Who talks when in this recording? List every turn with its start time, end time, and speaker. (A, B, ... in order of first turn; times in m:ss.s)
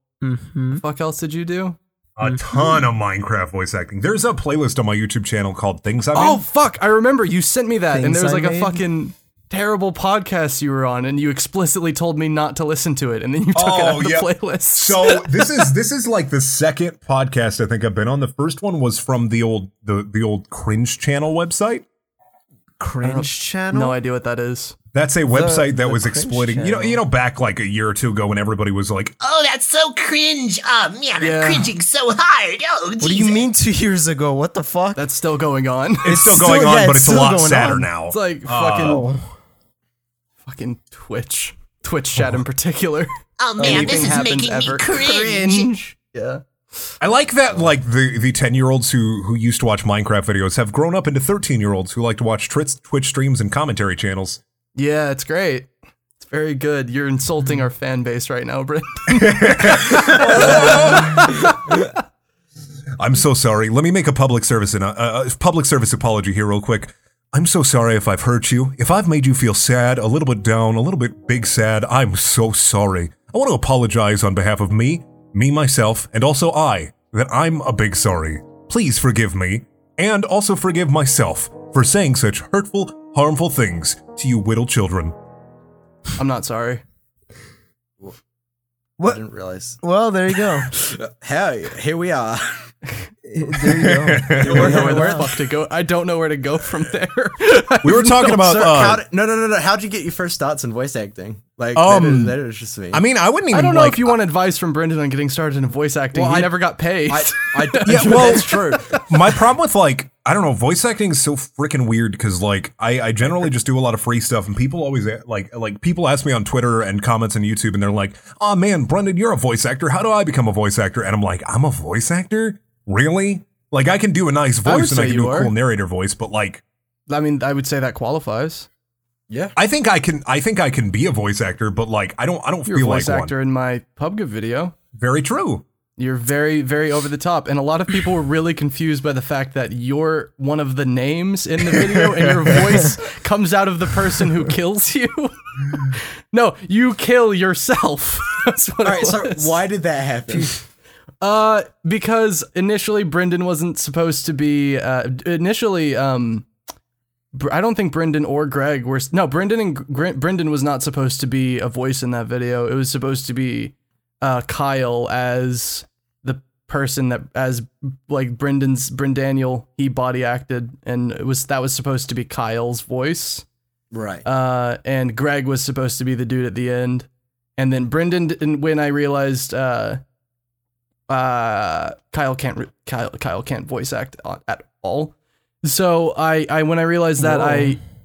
0:00.2-0:00.8 A
0:00.7-0:01.8 B
0:02.2-0:06.4 C
0:02.2-0:02.8 A
0:06.1-0:15.7 B
0:07.9-0:08.8 A
0:13.6-0:21.8 C
0:22.8-0:24.0 A
0:23.0-0:24.8 B
0:24.9-0:29.9 C
0:25.3-0:27.0 A
0:29.3-0:33.2 D
0:31.2-0:31.7 B
0:33.0-0:35.0 A
0:35.0-0:36.3 B
0:36.0-0:39.0 C
0:36.0-0:37.9 A
0:38.1-0:39.0 B
0:38.8-0:39.2 A
0:40.4-0:46.4 B
0:43.4-0:45.7 D
0:43.6-0:44.2 A
0:47.0-0:54.4 C
0:54.8-1:01.8 B
0:59.1-1:01.6 C
1:03.0-1:25.2 C
1:26.2-1:26.8 B
1:29.0-1:29.8 E
1:29.8-1:30.7 A
1:30.7-1:32.7 E
1:33.2-1:35.3 A
1:33.7-1:34.8 C
1:34.4-1:38.5 B
1:34.4-1:35.3 E
1:37.8-1:39.0 C
1:38.3-1:43.0 E
1:41.7-1:42.4 C
1:42.9-1:44.2 C
1:43.5-1:49.1 B
1:46.1-1:49.0 E
1:47.8-2:06.6 C
2:04.6-2:05.5 B
2:07.1-2:08.7 B
2:09.3-2:09.6 E
2:09.6-2:13.3 C
2:12.7-2:14.8 B
2:15.0-2:15.6 C
2:16.0-2:29.5 B
2:21.8-2:22.8 C
2:28.8-2:30.6 E
2:31.2-2:36.5 B
2:37.3-2:53.4 B
2:53.9-2:54.2 E
2:54.2-3:00.0 B
3:01.1-3:07.8 B
3:07.2-3:07.8 A